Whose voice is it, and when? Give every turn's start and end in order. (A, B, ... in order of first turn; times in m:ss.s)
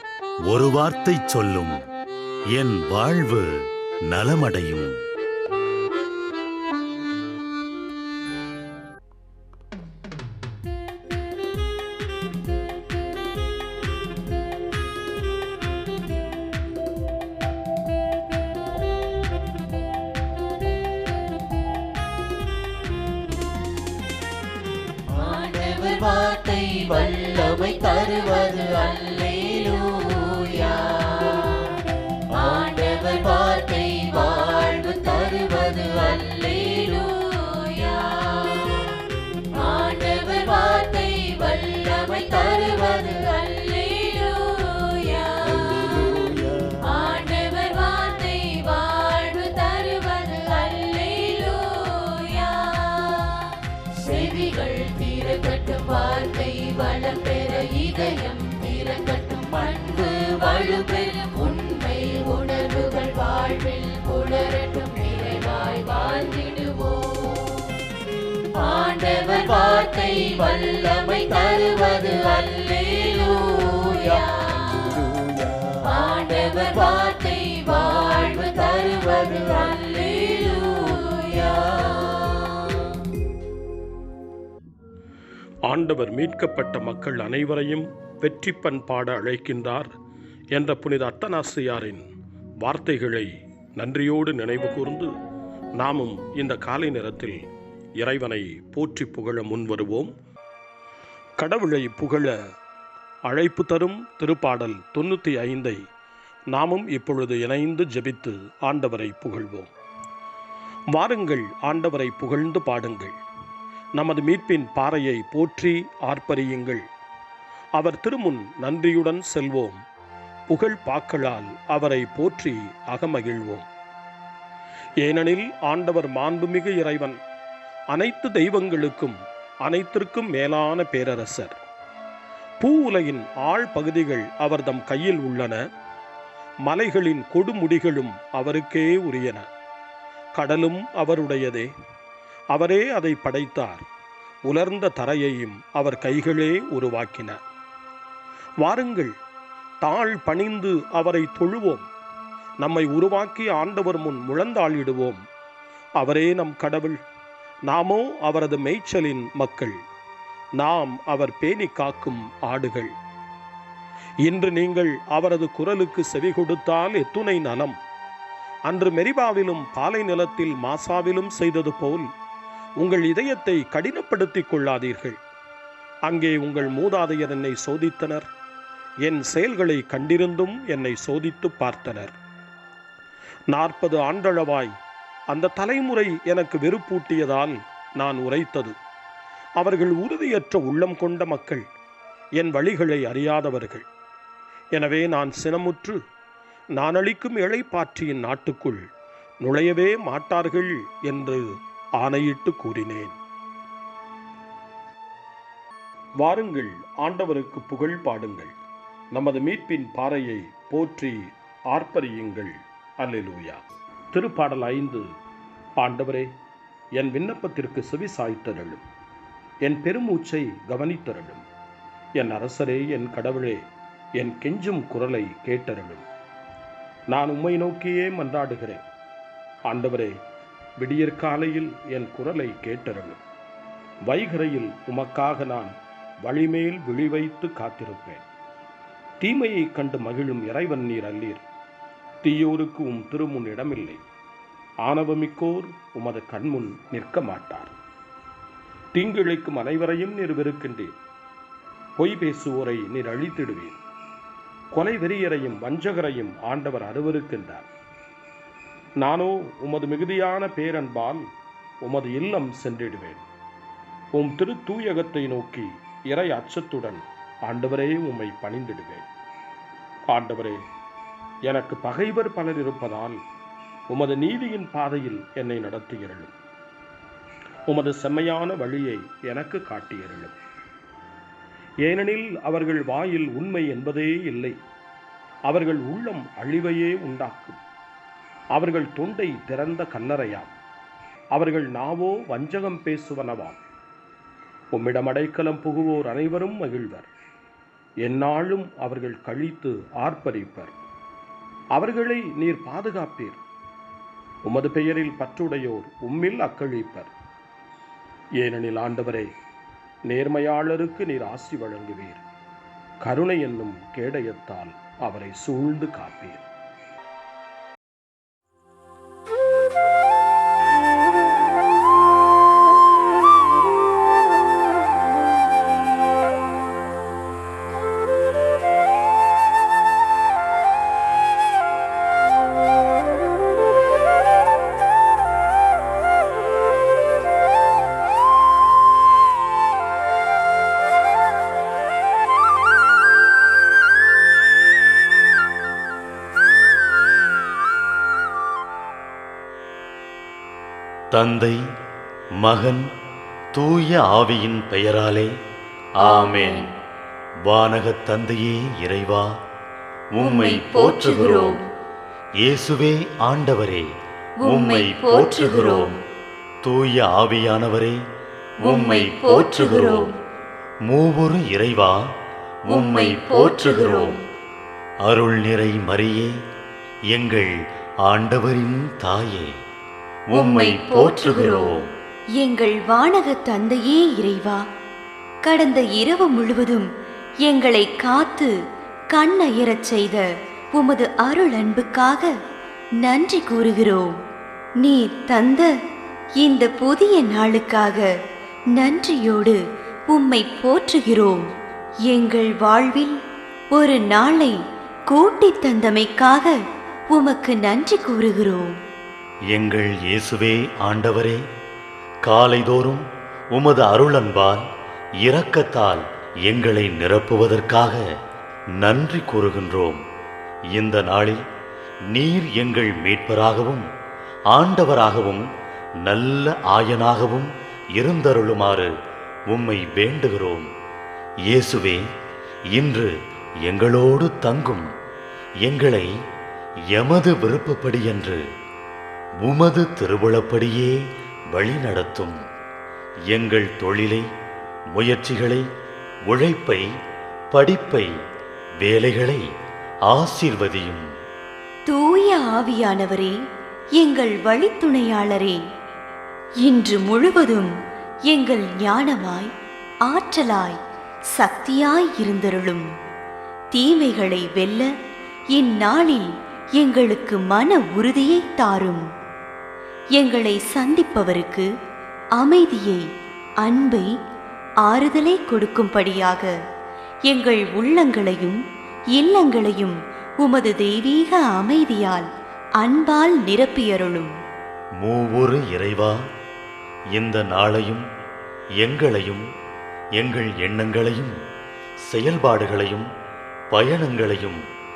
0:00.5-0:01.8 A
0:02.5-0:03.5 A
0:04.1-0:04.9 A
0:25.1-0:39.0 B
0:39.5-1:07.8 B
1:08.6-1:22.9 B
1:25.7-1:29.9 C
1:30.5-1:32.1 C
1:32.6-1:35.1 C
1:35.8-1:37.4 C
1:38.0-1:40.1 C
1:41.4-1:42.3 C
1:43.3-1:45.8 C
1:46.5-1:49.7 C
1:50.9-1:53.2 C
1:54.0-1:56.8 C
1:57.8-1:59.8 C
2:00.5-2:03.7 C
2:05.0-2:07.2 C
2:07.9-2:11.6 C
2:12.6-2:15.6 C
2:16.7-2:19.5 C
2:20.3-2:21.7 C
2:22.5-2:23.8 C
2:24.5-2:27.4 C
2:28.6-2:29.1 C
2:29.8-2:31.8 C
2:32.6-2:35.2 C
2:36.0-2:37.0 C
2:37.7-2:39.8 C
2:40.6-2:42.9 C
2:44.2-2:47.8 C
2:48.7-2:52.1 C
2:52.8-2:55.2 C
2:56.1-2:58.3 C
2:59.0-3:02.2 C
3:03.5-3:04.7 C
3:05.3-3:08.8 C
3:09.6-3:11.6 C
3:12.4-3:13.8 C
3:14.7-3:16.0 C
3:16.8-3:18.9 C
3:19.4-3:21.4 C
3:22.0-3:23.2 C
3:26.2-3:28.5 C
3:29.1-3:35.1 C
3:35.8-3:36.3 C
3:37.0-3:38.8 C
3:39.6-3:41.4 C
3:42.2-3:43.6 C
3:44.2-3:46.0 C
3:47.1-3:48.8 C
3:49.7-3:50.2 C
3:50.8-3:53.2 C
3:54.1-3:58.2 C
3:59.2-4:01.4 C
4:02.2-4:04.0 C
4:04.8-4:07.7 C
4:08.9-4:10.9 C
4:12.0-4:13.8 C
4:14.7-4:17.7 C
4:19.0-4:21.2 C
4:21.8-4:23.2 C
4:24.1-4:29.0 C
4:30.1-4:30.6 C
4:31.5-4:33.2 C
4:33.9-4:36.3 C
4:37.7-4:40.4 C
4:41.8-4:44.6 C
4:45.5-4:47.6 C
4:48.5-4:50.5 C
4:51.3-4:53.6 C
4:54.7-4:57.1 C
4:58.0-5:00.7 C
5:01.7-5:03.4 C
5:04.4-5:07.1 C
5:08.4-5:09.3 C
5:10.1-5:12.2 C
5:13.0-5:16.4 C
5:51.1-5:51.6 A
5:52.4-5:52.8 A
5:53.5-5:55.3 A
5:56.0-5:56.7 D
5:56.0-5:56.7 A
5:57.4-5:59.2 A
6:00.2-6:01.6 A
6:00.2-6:01.6 D
6:02.4-6:03.8 A
6:04.5-6:06.0 A
6:04.5-6:06.0 D
6:06.6-6:08.0 A
6:08.6-6:10.1 A
6:08.6-6:10.1 D
6:10.9-6:12.0 A
6:12.7-6:14.2 A
6:12.7-6:14.2 D
6:15.0-6:16.3 A
6:17.1-6:17.5 A
6:18.0-6:19.5 A
6:20.3-6:21.9 A
6:20.3-6:21.8 D
6:22.4-6:24.6 D
6:25.4-6:26.9 D
6:27.4-6:28.5 D
6:29.1-6:32.3 D
6:33.0-6:34.1 D
6:34.8-6:35.7 D
6:36.4-6:38.1 D
6:38.8-6:41.5 D
6:42.1-6:43.2 D
6:43.7-6:44.6 D
6:45.1-6:46.6 D
6:47.1-6:48.7 D
6:49.5-6:51.4 A
6:52.2-6:54.6 A
6:55.2-6:58.0 A
6:58.8-7:00.0 A
7:00.7-7:01.4 A
7:02.1-7:03.8 A
7:04.5-7:05.4 A
7:06.0-7:08.9 A
7:09.5-7:10.7 A
7:11.5-7:12.0 A
7:12.7-7:13.1 A
7:13.6-7:14.9 A
7:15.6-7:16.1 A
7:16.9-7:18.4 A
7:19.4-7:21.0 A
7:21.5-7:22.3 A
7:23.3-7:24.2 A
7:24.9-7:25.6 A
7:26.3-7:26.8 A
7:27.5-7:28.1 A
7:28.8-7:29.4 A
7:30.1-7:31.0 A
7:31.9-7:33.4 D
7:34.0-7:35.6 D
7:36.6-7:37.7 D
7:38.3-7:39.5 D
7:40.1-7:40.8 D
7:41.4-7:42.9 D
7:43.7-7:44.9 D
7:45.5-7:49.0 D
7:50.2-7:51.7 D
7:52.4-7:53.0 D
7:53.6-7:54.1 D
7:54.8-7:56.5 D
7:57.3-7:58.6 D
7:59.2-8:02.3 D
8:02.8-8:04.3 D
8:05.0-8:06.2 A
8:07.1-8:08.0 A
8:08.8-8:09.4 A
8:10.2-8:11.4 A
8:12.1-8:13.1 A
8:13.7-8:14.6 A